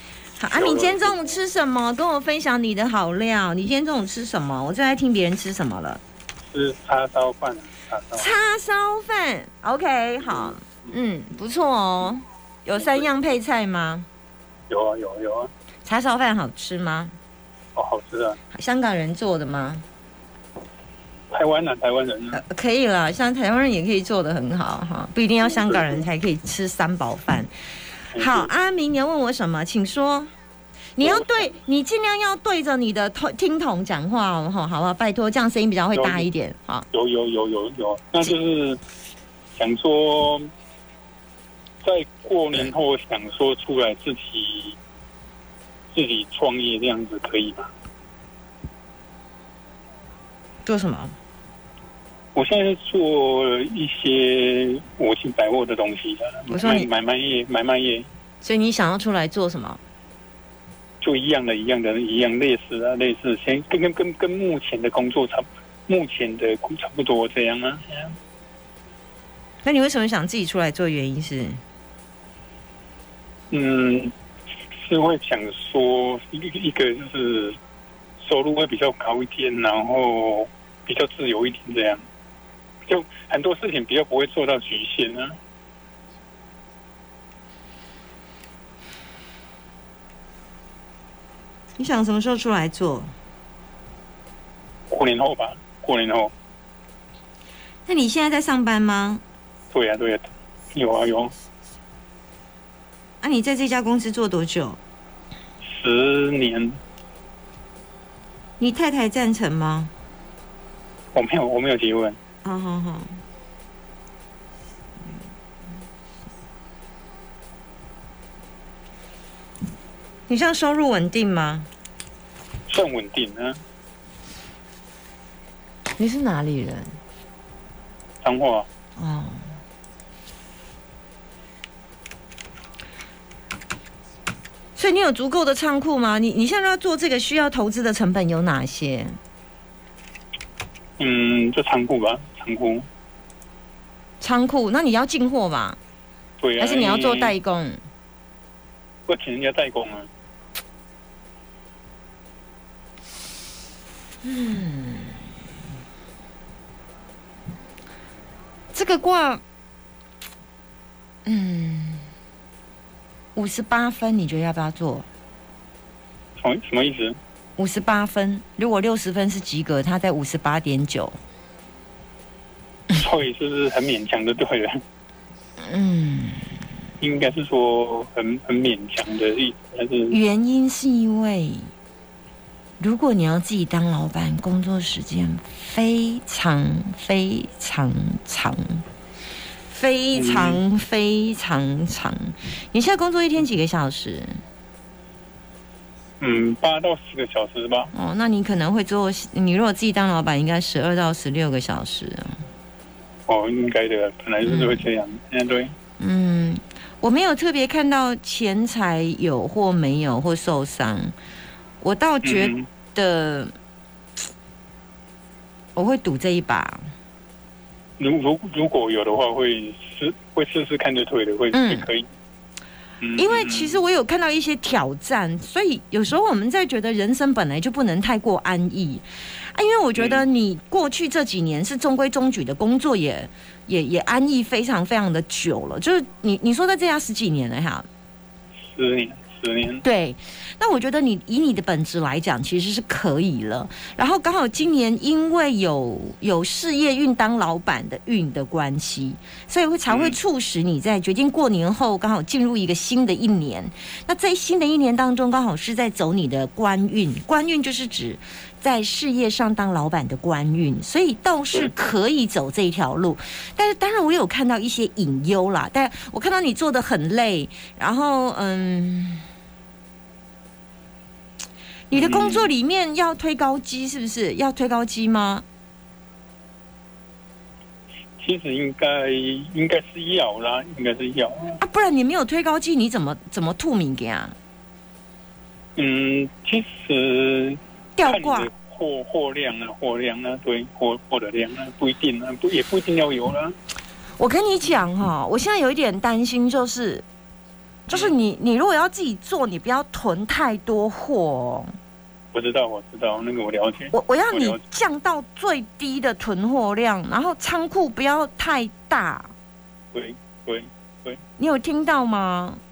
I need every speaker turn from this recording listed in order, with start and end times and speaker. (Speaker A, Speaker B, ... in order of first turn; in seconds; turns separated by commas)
Speaker A: 0.4-6.0, Speaker B: 0.5-1.1, Speaker B: 6.5-8.3, Speaker A: 8.2-14.1, Speaker B: 10.2-10.9, Speaker B: 12.8-13.2, Speaker B: 14.7-15.5, Speaker A: 15.8-17.1, Speaker B: 17.8-18.4, Speaker A: 18.5-19.8, Speaker B: 21.3-22.4, Speaker A: 22.3-27.5, Speaker B: 25.4-26.0, Speaker B: 28.1-28.5, Speaker A: 28.1-30.3, Speaker A: 31.0-36.9, Speaker B: 31.0-31.6, Speaker B: 35.9-36.3, Speaker B: 36.9-38.8, Speaker B: 39.6-40.5, Speaker B: 41.8-44.8, Speaker B: 45.9-47.7, Speaker A: 50.6-51.2, Speaker B: 52.3-58.1, Speaker A: 56.5-56.9, Speaker A: 58.4-59.8, Speaker B: 61.0-68.2, Speaker A: 69.6-71.6, Speaker B: 73.5-74.1, Speaker B: 74.7-77.6, Speaker B: 78.2-82.0, Speaker B: 82.9-85.4, Speaker A: 91.8-93.1, Speaker B: 94.9-96.3, Speaker A: 97.8-99.2, Speaker B: 99.7-101.3, Speaker A: 103.2-104.8, Speaker B: 105.6-106.8, Speaker A: 108.6-109.9, Speaker B: 111.1-112.2, Speaker A: 112.4-113.2, Speaker A: 120.3-121.7, Speaker B: 122.7-123.6, Speaker A: 126.0-127.0, Speaker B: 128.2-128.7, Speaker A: 129.0-129.4, Speaker A: 134.8-139.2, Speaker B: 141.0-142.9, Speaker A: 144.2-145.8, Speaker B: 146.4-147.3, Speaker A: 146.6-147.8, Speaker B: 149.1-150.1, Speaker A: 154.2-155.3, Speaker A: 158.7-159.4, Speaker A: 161.2-162.1, Speaker A: 163.3-165.1, Speaker B: 166.4-167.2, Speaker A: 167.6-171.2, Speaker B: 172.9-174.8, Speaker A: 175.6-176.6, Speaker B: 177.0-180.2, Speaker A: 180.1-181.7, Speaker A: 182.8-188.8, Speaker A: 189.7-194.4, Speaker B: 190.1-190.6, Speaker B: 196.2-197.9, Speaker A: 197.9-202.4, Speaker B: 203.3-205.7, Speaker A: 204.4-204.8, Speaker A: 206.0-211.1, Speaker A: 211.8-213.5, Speaker B: 212.2-212.7, Speaker A: 215.8-216.8, Speaker B: 218.0-222.1, Speaker A: 221.5-221.9, Speaker B: 223.0-223.8, Speaker A: 223.2-237.9, Speaker B: 229.9-230.2, Speaker B: 238.7-239.8, Speaker A: 239.8-269.2, Speaker B: 249.9-250.2, Speaker A: 271.9-275.4, Speaker B: 271.9-272.5, Speaker B: 278.2-281.6, Speaker A: 281.6-284.3, Speaker B: 285.8-293.6, Speaker A: 288.0-288.5, Speaker A: 294.2-297.1, Speaker A: 297.9-301.7, Speaker B: 302.3-304.6, Speaker A: 303.9-309.3, Speaker B: 309.9-311.2, Speaker A: 311.4-312.6